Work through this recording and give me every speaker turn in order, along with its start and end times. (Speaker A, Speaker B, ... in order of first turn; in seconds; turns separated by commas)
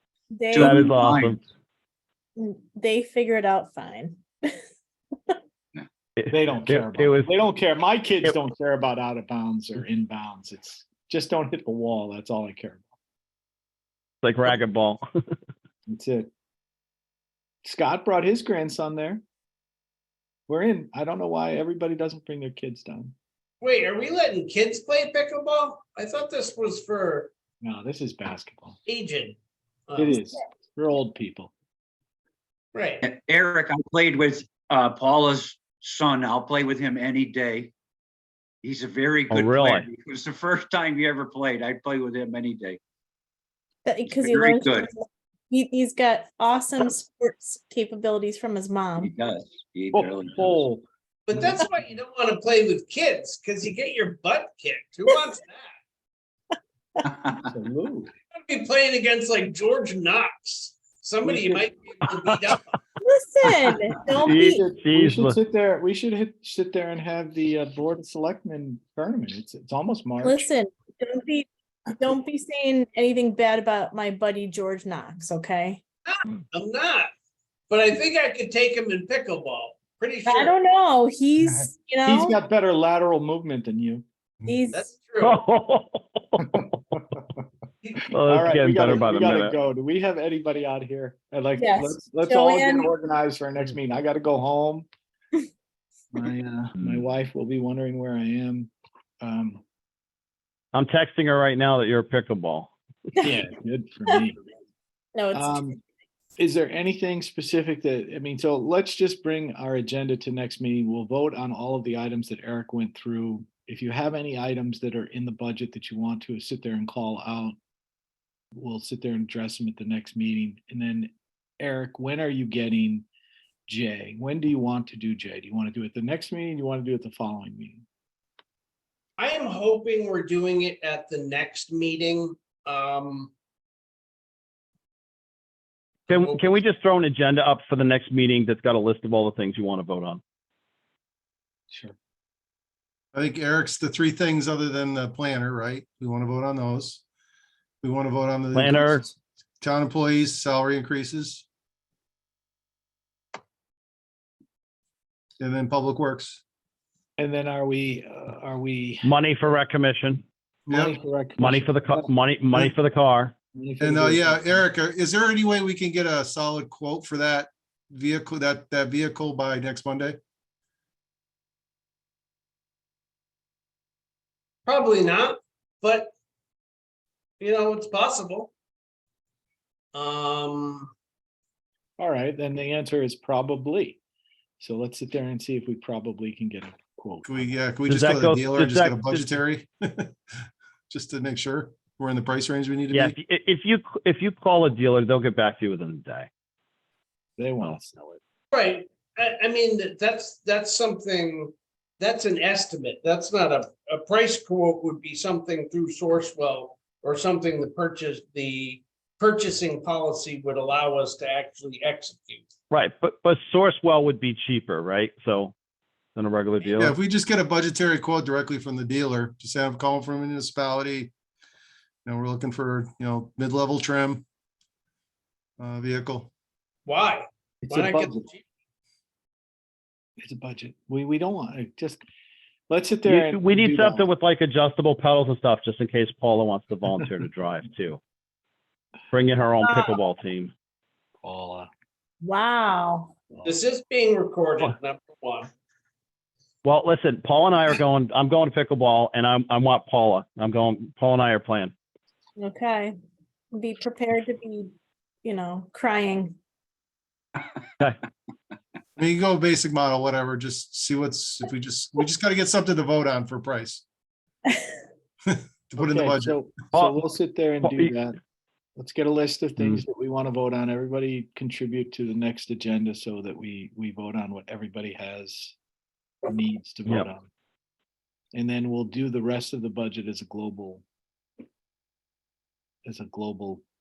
Speaker A: 0.3-1.0, Speaker B: 0.5-1.4, Speaker C: 0.6-1.4, Speaker A: 2.4-4.7, Speaker C: 6.2-7.3, Speaker D: 6.3-12.9, Speaker C: 14.2-15.0, Speaker D: 15.9-16.3, Speaker D: 17.6-19.2, Speaker D: 20.5-23.1, Speaker E: 23.6-27.3, Speaker D: 27.6-28.8, Speaker E: 28.9-29.4, Speaker E: 29.9-30.2, Speaker D: 30.0-31.5, Speaker E: 32.7-33.0, Speaker B: 33.0-37.7, Speaker B: 38.6-42.8, Speaker C: 39.3-39.9, Speaker A: 43.9-49.1, Speaker B: 44.1-44.9, Speaker B: 49.0-50.6, Speaker D: 49.9-51.5, Speaker E: 51.3-55.7, Speaker B: 57.1-57.3, Speaker D: 57.4-58.1, Speaker E: 58.4-62.7, Speaker D: 61.2-61.7, Speaker A: 63.0-64.6, Speaker C: 64.2-65.4, Speaker D: 64.2-70.5, Speaker A: 70.2-75.8, Speaker E: 76.1-77.1, Speaker E: 77.7-80.6, Speaker A: 80.3-82.4, Speaker D: 81.4-84.0, Speaker A: 84.5-85.0, Speaker E: 84.7-85.4, Speaker C: 85.2-86.7, Speaker D: 86.5-87.2, Speaker E: 87.8-88.1, Speaker C: 88.1-89.6, Speaker D: 88.2-94.9, Speaker A: 91.6-92.9, Speaker D: 96.1-99.6, Speaker C: 100.7-102.7, Speaker D: 103.2-104.4, Speaker A: 105.1-105.6, Speaker D: 105.3-105.8, Speaker D: 106.4-117.6, Speaker D: 118.5-123.0, Speaker D: 123.7-127.8, Speaker E: 129.2-133.3, Speaker E: 136.1-136.5, Speaker C: 136.1-140.2, Speaker D: 141.7-142.0, Speaker F: 143.1-147.0, Speaker F: 147.8-151.5, Speaker C: 148.5-149.1, Speaker F: 155.4-156.4, Speaker D: 157.2-159.1, Speaker C: 159.0-160.2, Speaker F: 160.7-160.9, Speaker D: 160.7-162.1, Speaker C: 161.4-163.3, Speaker D: 163.5-164.7, Speaker F: 163.8-170.2, Speaker E: 174.7-176.1, Speaker E: 177.4-178.5, Speaker E: 179.9-180.9, Speaker D: 182.0-184.0, Speaker D: 184.6-187.6, Speaker F: 187.2-190.1, Speaker C: 187.9-189.3, Speaker F: 190.9-193.2, Speaker C: 192.9-196.3, Speaker D: 197.4-198.2, Speaker E: 198.5-212.5, Speaker C: 212.7-215.5, Speaker C: 216.2-216.9, Speaker F: 216.8-221.1, Speaker F: 222.1-224.2, Speaker F: 225.6-226.3, Speaker E: 226.9-228.4, Speaker D: 227.6-228.3, Speaker D: 230.2-232.0, Speaker D: 232.7-234.1, Speaker C: 233.1-238.0, Speaker C: 239.1-240.5, Speaker A: 239.6-239.9, Speaker D: 241.2-241.7, Speaker A: 242.2-243.2, Speaker E: 243.4-245.5, Speaker C: 246.6-251.7, Speaker A: 252.4-252.9, Speaker A: 253.5-254.7, Speaker A: 255.2-256.4, Speaker F: 259.0-263.8, Speaker F: 265.3-266.4, Speaker D: 265.8-268.2, Speaker C: 266.7-267.0, Speaker C: 267.6-267.9, Speaker D: 268.8-275.6, Speaker C: 269.6-269.8, Speaker D: 276.3-277.3, Speaker D: 278.3-280.8, Speaker D: 282.9-283.6